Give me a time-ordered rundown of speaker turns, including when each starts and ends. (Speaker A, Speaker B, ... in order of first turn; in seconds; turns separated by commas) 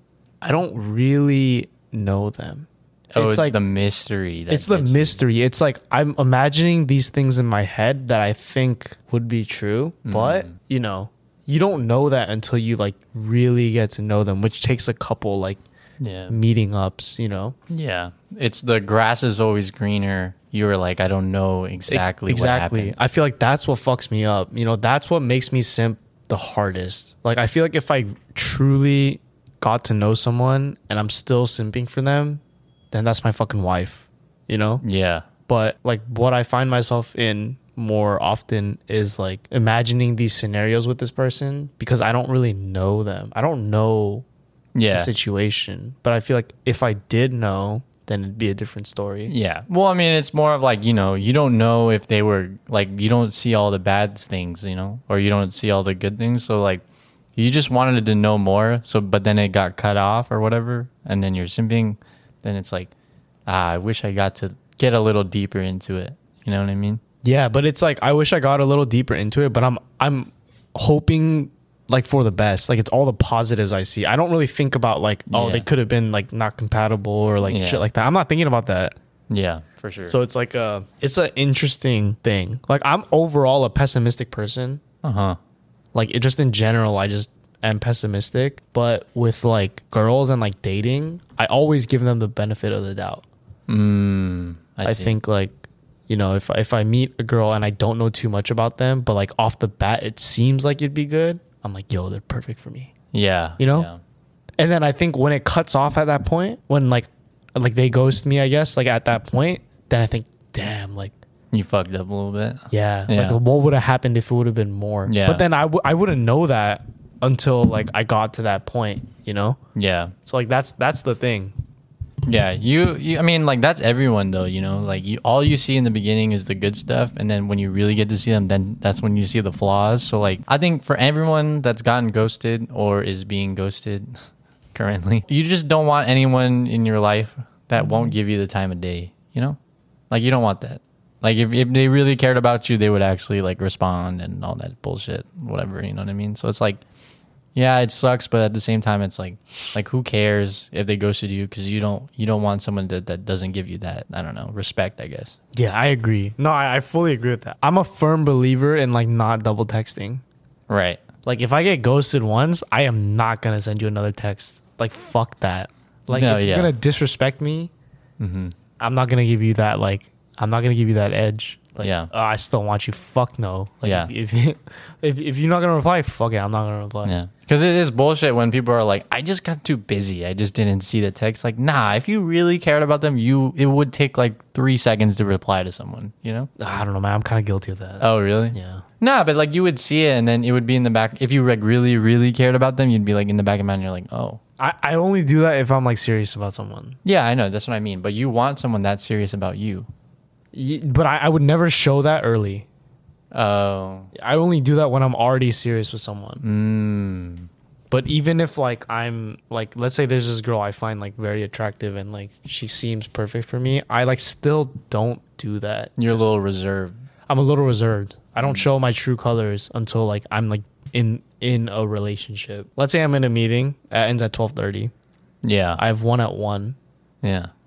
Speaker A: 0.4-3.6, Speaker B: 3.1-5.2, Speaker A: 4.5-15.6, Speaker B: 10.1-10.5, Speaker B: 16.0-16.3, Speaker A: 16.3-17.6, Speaker B: 17.7-22.9, Speaker A: 21.9-34.8, Speaker B: 34.8-35.3, Speaker A: 35.5-44.2, Speaker B: 44.7-45.1, Speaker A: 44.9-49.3, Speaker B: 49.3-56.8, Speaker B: 57.4-62.9, Speaker B: 63.5-67.0, Speaker A: 67.2-79.0, Speaker B: 75.3-75.7, Speaker B: 77.5-77.8, Speaker B: 79.3-80.2, Speaker A: 80.0-84.8, Speaker B: 85.0-85.4, Speaker A: 85.9-93.2, Speaker B: 93.7-95.1, Speaker A: 94.8-102.9, Speaker B: 103.1-104.0, Speaker A: 103.6-103.9, Speaker A: 104.6-111.1, Speaker B: 111.5-113.4, Speaker A: 112.7-119.6, Speaker B: 115.0-115.4, Speaker B: 119.7-120.1, Speaker A: 120.2-121.5, Speaker B: 122.2-134.2, Speaker B: 134.7-139.6, Speaker B: 140.1-146.8, Speaker B: 147.5-155.3, Speaker A: 155.5-160.2, Speaker B: 160.7-161.0, Speaker A: 161.2-167.7, Speaker B: 166.1-166.7, Speaker B: 168.2-168.5, Speaker A: 168.8-177.1, Speaker B: 171.8-172.1, Speaker B: 173.8-174.1, Speaker B: 177.0-186.5, Speaker A: 186.6-188.8, Speaker B: 188.0-194.4, Speaker A: 194.6-197.0, Speaker B: 197.0-199.9, Speaker A: 200.5-202.7, Speaker B: 203.3-204.1, Speaker A: 204.1-206.4, Speaker B: 206.4-207.5, Speaker A: 207.9-216.2, Speaker B: 216.0-216.9, Speaker A: 217.3-224.9, Speaker B: 225.4-225.8, Speaker A: 225.8-226.8, Speaker B: 227.2-227.5